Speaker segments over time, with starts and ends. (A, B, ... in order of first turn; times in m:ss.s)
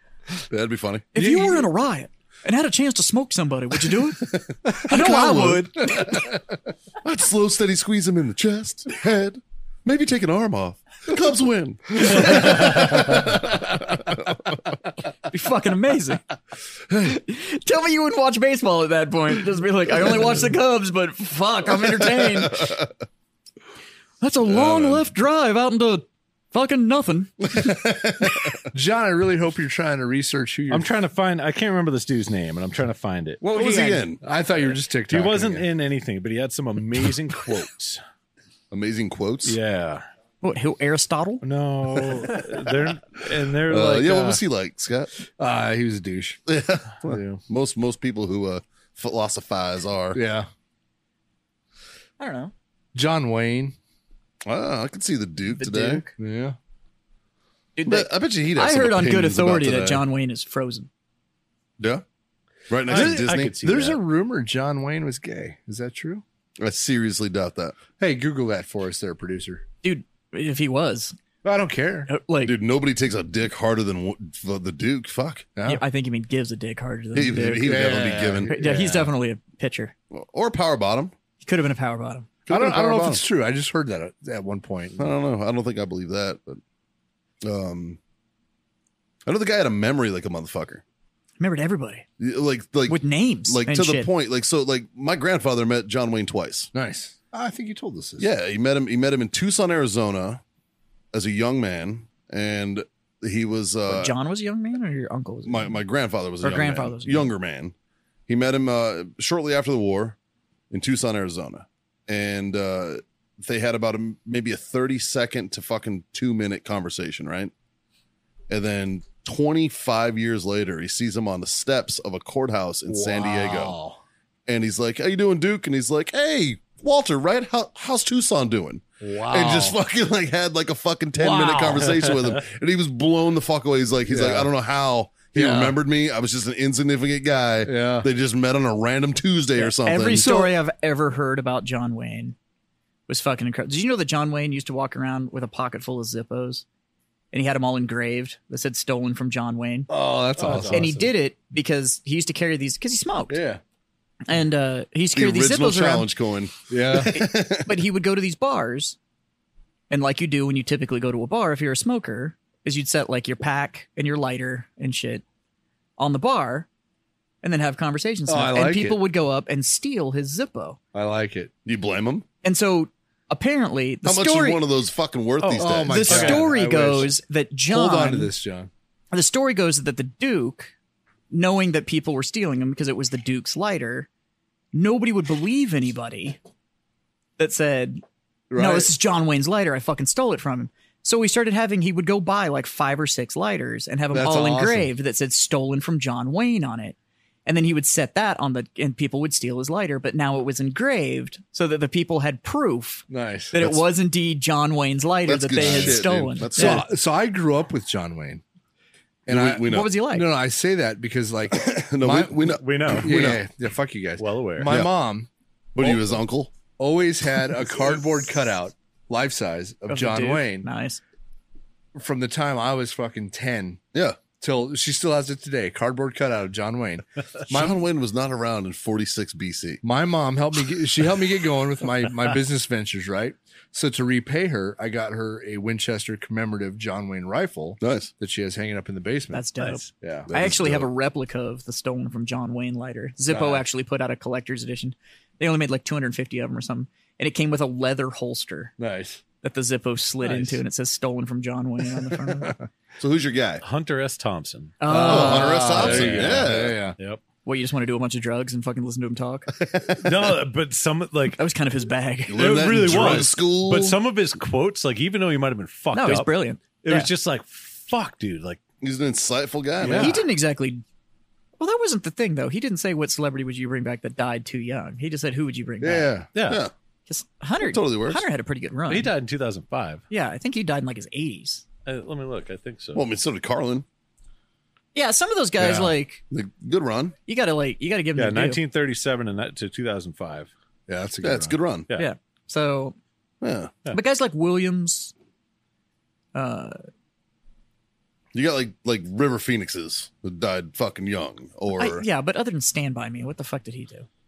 0:00.5-0:01.0 A
0:01.1-0:04.2 B
0:01.2-0:01.7 C
0:04.2-0:06.3 A
0:04.8-0:06.1 B
0:06.1-0:06.3 C
0:07.0-0:14.2 A
0:15.3-0:16.2 B
0:16.9-0:22.7 B
0:22.0-0:22.9 A
0:24.2-0:27.7 B
0:24.4-0:25.1 A
0:27.5-0:28.6 A
0:28.7-0:30.9 C
0:30.7-0:33.4 D
0:33.4-0:34.0 B
0:33.5-0:34.2 A
0:34.2-0:35.7 C
0:35.1-0:38.0 D
0:38.7-0:39.6 A
0:39.4-0:40.0 D
0:40.4-0:41.4 B
0:41.4-0:44.4 D
0:43.7-0:45.1 A
0:45.4-0:46.4 C
0:46.5-0:50.2 A
0:47.0-0:47.4 C
0:50.1-0:50.5 C
0:52.2-0:52.5 B
0:52.9-0:53.8 C
0:54.4-0:56.0 A
0:55.5-0:56.1 B
0:56.2-0:56.6 C
0:57.8-1:00.9 B
0:57.8-1:00.0 A
1:01.8-1:02.0 A
1:02.7-1:03.6 A
1:02.8-1:04.0 D
1:02.9-1:06.2 C
1:06.6-1:07.8 A
1:08.0-1:09.6 C
1:09.8-1:11.2 B
1:11.4-1:12.1 C
1:12.1-1:12.6 B
1:12.4-1:15.5 A
1:15.6-1:15.8 C
1:15.6-1:17.9 B
1:17.1-1:18.5 A
1:17.6-1:19.1 C
1:18.5-1:19.9 B
1:20.1-1:21.1 A
1:21.4-1:22.3 B
1:22.4-1:23.2 A
1:22.5-1:25.1 C
1:25.0-1:26.6 A
1:27.4-1:28.0 A
1:29.2-1:30.8 A
1:31.4-1:32.0 B
1:32.2-1:36.7 A
1:32.9-1:34.1 B
1:36.7-1:38.3 C
1:38.2-1:40.4 A
1:41.1-1:44.1 A
1:43.9-1:45.8 B
1:45.4-1:47.7 A
1:46.4-1:47.3 B
1:48.3-1:50.2 A
1:50.7-1:57.5 A
1:58.5-2:03.8 A
2:02.9-2:04.0 C
2:04.5-2:20.3 A
2:09.0-2:09.8 C
2:11.2-2:12.1 C
2:14.0-2:14.5 C
2:15.3-2:15.8 C
2:17.6-2:18.1 C
2:19.6-2:22.4 B
2:20.1-2:20.5 C
2:23.1-2:26.6 B
2:27.3-2:29.9 B
2:29.9-2:31.1 C
2:30.4-2:30.9 D
2:30.7-2:33.4 B
2:33.3-2:33.6 C
2:34.3-2:36.1 B
2:35.1-2:37.8 A
2:36.7-2:37.2 C
2:37.1-2:39.0 B
2:39.9-2:45.2 B
2:46.0-2:46.7 B
2:47.4-2:50.8 B
2:48.3-2:49.0 C
2:50.9-2:51.5 C
2:51.6-2:52.2 A
2:52.4-2:54.6 B
2:54.0-2:56.4 A
2:55.4-2:56.5 D
2:55.6-2:57.2 C
2:55.8-2:58.3 B
2:57.7-2:58.7 C
2:59.1-3:00.7 B
3:01.3-3:04.1 B
3:04.7-3:06.4 B
3:07.4-3:08.0 B
3:08.5-3:08.9 C
3:08.5-3:26.8 B
3:14.1-3:14.9 C
3:23.1-3:23.6 C
3:25.2-3:26.9 A
3:25.6-3:28.4 C
3:29.2-3:36.2 C
3:29.3-3:29.9 A
3:29.6-3:30.3 B
3:31.5-3:33.4 A
3:32.6-3:33.4 D
3:34.2-3:34.8 D
3:34.7-3:34.9 A
3:35.7-3:36.5 A
3:36.8-3:40.7 C
3:39.9-3:41.0 B
3:41.9-3:43.8 C
3:43.9-3:44.2 A
3:44.4-3:47.8 C
3:47.5-3:49.8 A
3:49.8-4:00.3 C
3:57.8-3:58.1 A
3:59.3-4:08.7 B
3:59.6-3:59.8 D
4:00.3-4:00.9 A
4:03.3-4:03.6 C
4:08.8-4:09.2 C
4:09.4-4:12.6 B
4:10.2-4:10.6 D
4:12.2-4:12.6 C
4:13.0-4:13.6 A
4:13.6-4:14.8 D
4:14.8-4:15.8 B
4:14.9-4:17.0 C
4:15.0-4:16.8 A
4:15.8-4:17.2 D
4:17.4-4:19.5 B
4:19.5-4:20.4 A
4:19.9-4:21.4 D
4:21.4-4:22.4 B
4:22.3-4:24.0 A
4:22.3-4:28.6 D
4:25.9-4:27.1 B
4:28.8-4:30.2 A
4:29.8-4:30.2 C
4:29.9-4:30.8 B
4:31.6-4:36.2 B
4:35.8-4:36.7 A
4:36.3-4:36.6 D
4:37.1-4:39.1 B
4:37.6-4:38.2 A
4:38.9-4:40.0 D
4:40.1-4:41.6 B
4:41.8-4:43.0 D
4:42.9-4:43.8 A
4:44.9-4:46.2 B
4:45.6-4:45.9 C
4:46.3-4:47.1 A
4:47.3-4:48.6 B
4:48.2-4:50.5 D
4:50.9-4:51.6 C
4:51.2-4:51.9 A
4:51.9-4:53.0 B
4:53.4-4:53.7 A
4:53.9-4:55.1 B
4:56.3-4:56.8 B
4:58.3-5:02.0 A
5:01.8-5:04.1 B